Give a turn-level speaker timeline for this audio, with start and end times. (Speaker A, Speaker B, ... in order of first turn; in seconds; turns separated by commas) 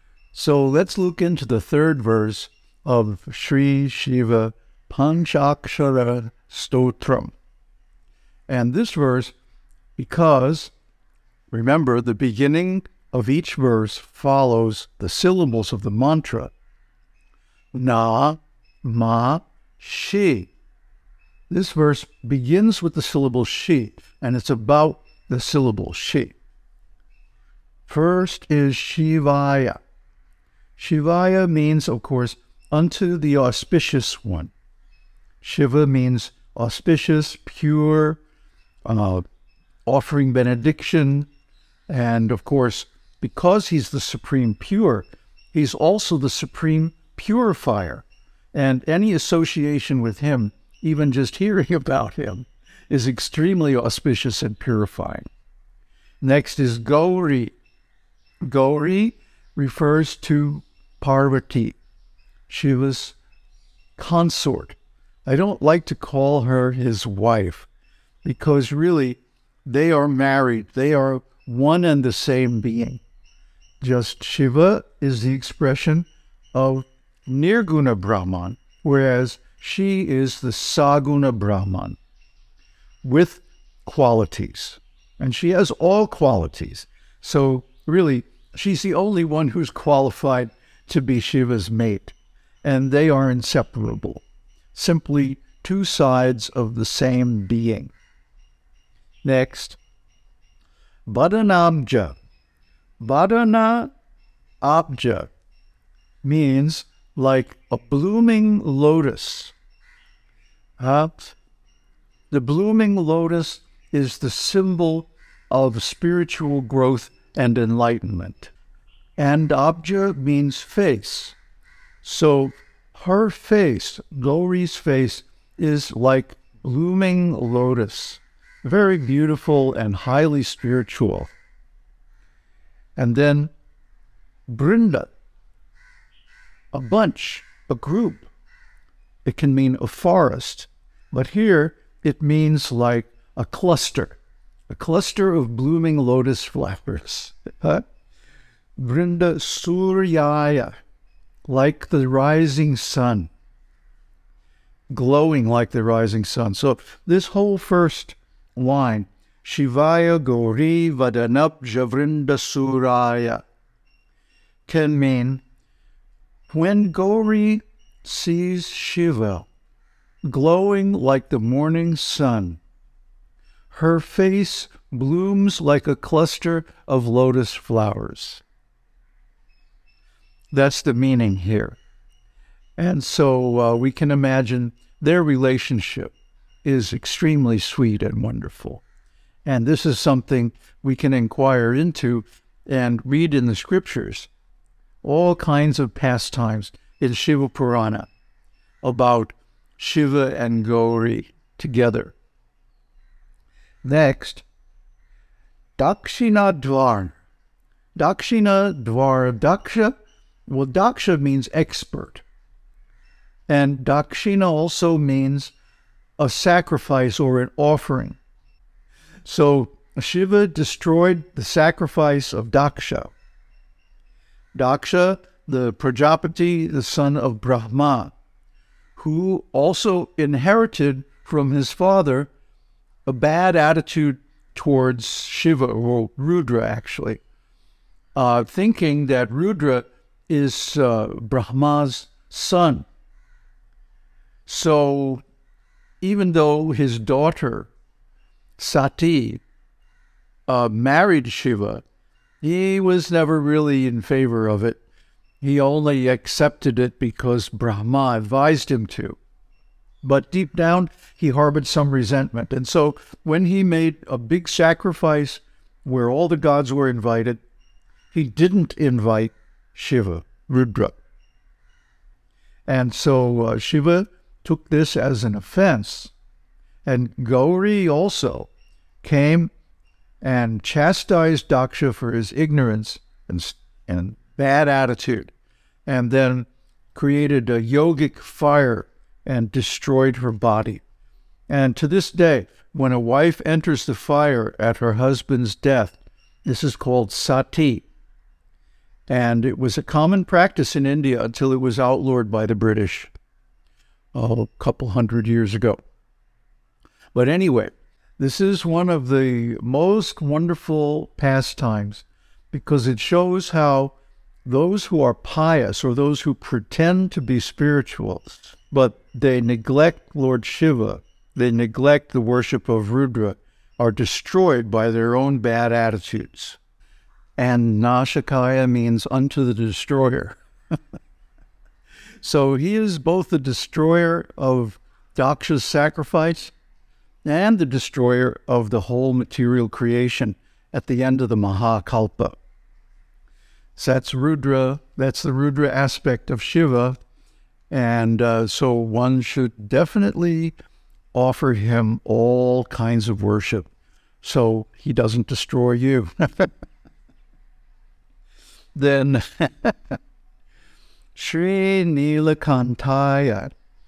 Speaker A: 0.3-7.3, Speaker A: 8.5-9.3, Speaker A: 10.0-10.7, Speaker A: 11.5-16.5, Speaker A: 17.7-20.5, Speaker A: 21.5-26.4, Speaker A: 27.9-29.8, Speaker A: 30.8-34.5, Speaker A: 35.4-38.2, Speaker A: 38.9-39.2, Speaker A: 39.9-41.3, Speaker A: 41.9-55.3, Speaker A: 56.2-57.5, Speaker A: 58.4-61.8, Speaker A: 62.5-63.2, Speaker A: 64.0-67.7, Speaker A: 68.2-73.0, Speaker A: 73.8-82.0, Speaker A: 83.0-97.9, Speaker A: 99.2-99.8, Speaker A: 101.1-102.2, Speaker A: 103.0-103.9, Speaker A: 104.6-105.3, Speaker A: 106.2-109.5, Speaker A: 110.8-111.4, Speaker A: 112.3-118.5, Speaker A: 119.2-121.4, Speaker A: 122.0-131.3, Speaker A: 133.0-133.5, Speaker A: 134.5-135.1, Speaker A: 136.7-138.3, Speaker A: 139.2-147.8, Speaker A: 148.8-150.8, Speaker A: 151.4-153.3, Speaker A: 154.9-163.4, Speaker A: 164.7-165.4, Speaker A: 166.5-169.5, Speaker A: 170.2-172.6, Speaker A: 173.7-178.4, Speaker A: 180.5-181.8, Speaker A: 182.8-188.8, Speaker A: 189.4-194.3, Speaker A: 195.0-198.1, Speaker A: 198.8-202.2, Speaker A: 203.8-204.4, Speaker A: 205.8-207.2, Speaker A: 208.0-209.9, Speaker A: 210.5-212.2, Speaker A: 213.5-215.5, Speaker A: 216.2-218.2, Speaker A: 219.2-223.1, Speaker A: 224.5-228.1, Speaker A: 229.0-232.3, Speaker A: 233.1-237.2, Speaker A: 238.2-242.9, Speaker A: 244.5-245.2, Speaker A: 246.0-247.7, Speaker A: 248.6-249.4, Speaker A: 250.5-251.8, Speaker A: 252.4-254.8, Speaker A: 255.4-259.2, Speaker A: 260.0-267.4, Speaker A: 268.1-271.0, Speaker A: 272.7-276.1, Speaker A: 276.9-278.5, Speaker A: 279.0-279.5, Speaker A: 280.2-285.3, Speaker A: 285.9-290.8, Speaker A: 291.5-297.9, Speaker A: 299.1-303.1, Speaker A: 304.1-305.8, Speaker A: 307.1-326.6, Speaker A: 327.4-330.4, Speaker A: 332.2-336.5, Speaker A: 337.2-342.4, Speaker A: 343.8-347.0, Speaker A: 347.7-350.6, Speaker A: 351.1-353.7, Speaker A: 354.2-356.5, Speaker A: 358.8-359.9, Speaker A: 361.1-363.5